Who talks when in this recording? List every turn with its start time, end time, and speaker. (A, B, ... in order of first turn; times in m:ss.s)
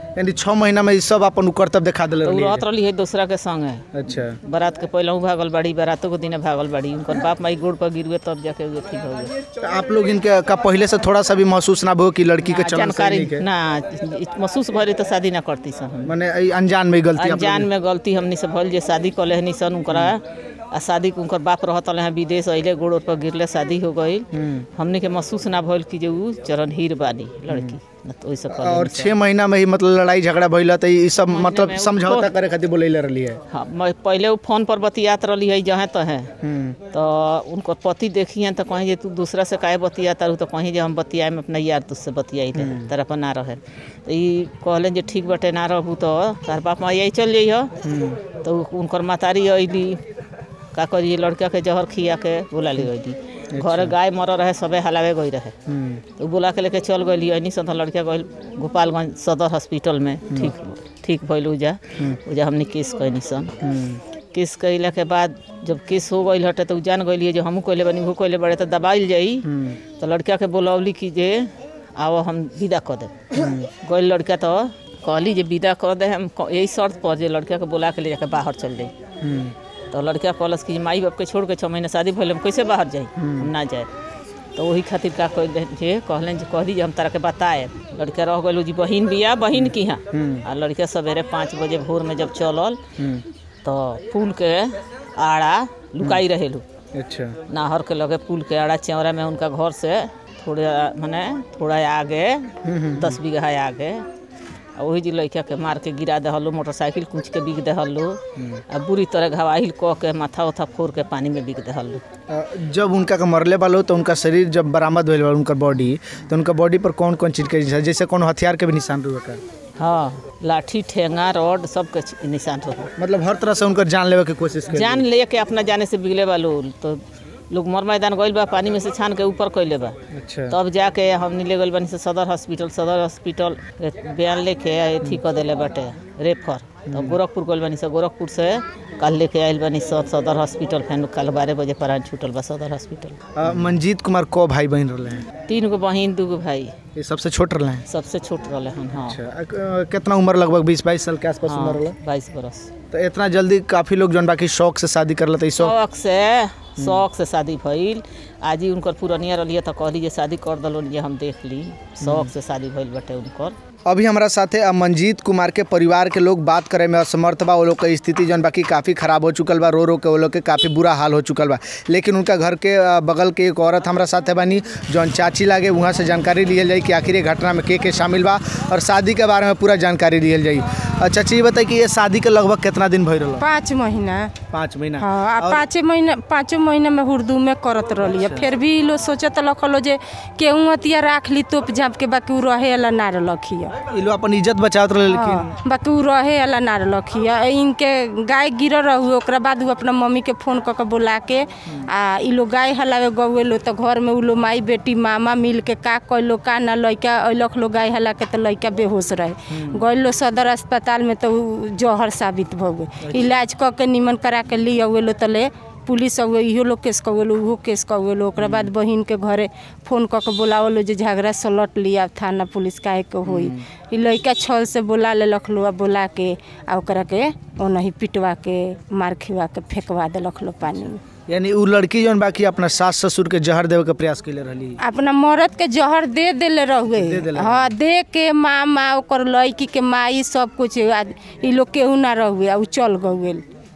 0:00.2-0:02.6 A
0:02.2-0:09.3 B
0:03.9-0:04.4 A
0:09.6-0:13.4 A
0:12.5-0:16.1 B
0:16.0-0:17.7 A
0:17.2-0:29.1 B
0:24.3-0:24.7 A
0:27.5-0:27.8 A
0:28.5-0:33.4 A
0:31.3-0:32.3 B
0:33.5-0:36.3 B
0:36.4-0:36.8 A
0:36.9-0:47.8 B
0:42.6-0:42.9 A
0:47.8-0:48.2 A
0:48.3-0:50.0 B
0:50.7-0:55.6 B
0:53.5-0:53.9 A
0:55.7-0:56.0 A
0:56.2-1:03.6 B
1:00.3-1:00.5 A
1:03.6-1:04.0 A
1:04.3-1:18.9 B
1:09.4-1:09.8 A
1:13.3-1:13.7 A
1:19.2-1:19.5 A
1:19.9-1:23.9 B
1:23.2-1:23.5 A
1:24.5-1:32.8 B
1:29.6-1:30.4 A
1:33.0-1:33.2 A
1:33.6-1:36.6 B
1:36.9-1:37.4 A
1:37.5-1:44.1 B
1:42.6-1:43.2 A
1:44.8-1:52.0 B
1:48.4-1:48.6 A
1:52.3-1:59.4 A
1:59.8-2:02.9 B
2:03.0-2:05.0 A
2:04.7-2:10.0 B
2:10.1-2:10.6 A
2:10.5-2:23.7 B
2:16.9-2:17.2 A
2:23.4-2:25.3 A
2:25.4-2:26.8 B
2:27.0-2:27.8 A
2:27.9-2:29.2 B
2:28.9-2:32.0 A
2:31.4-2:32.7 B
2:32.9-2:35.8 A
2:35.6-2:43.6 B
2:36.8-2:37.0 A
2:42.0-2:42.3 A
2:43.9-3:03.4 A
3:03.4-3:04.3 C
3:04.5-3:05.6 A
3:05.0-3:13.8 C
3:08.0-3:08.5 A
3:13.8-3:15.5 A
3:15.1-3:51.0 C
3:29.5-3:29.8 A
3:33.0-3:33.4 A
3:38.4-3:38.7 A
3:43.2-3:43.6 A
3:51.3-3:54.8 A
3:54.8-4:03.4 C
3:56.9-3:57.7 A